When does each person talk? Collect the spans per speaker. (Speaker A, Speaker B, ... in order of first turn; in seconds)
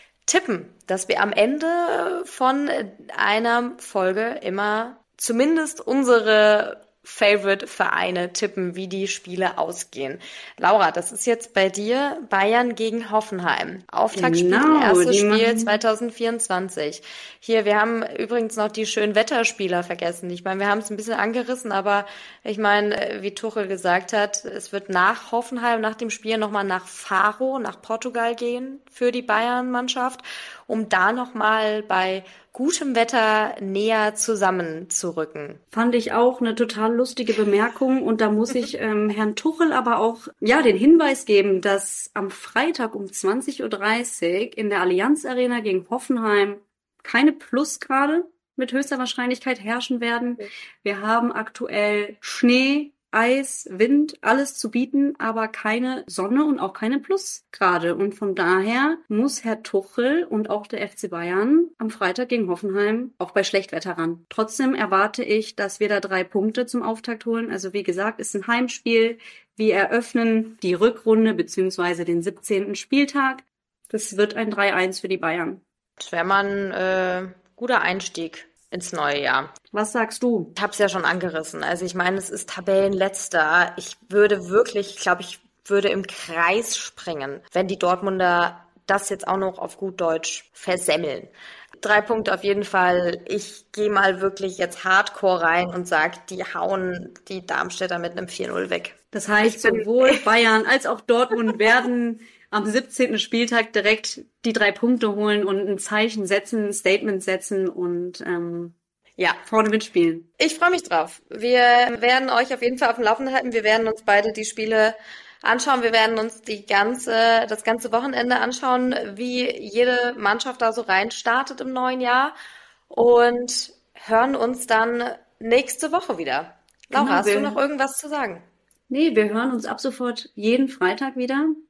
Speaker A: 0.3-35.6, 76.0-79.5, 80.5-100.2, 110.4-122.3, 122.9-128.4
Speaker B: 14.1-15.7, 35.7-75.6, 79.7-80.5, 99.1-108.8, 109.5-110.3, 126.9-127.6, 128.9-131.5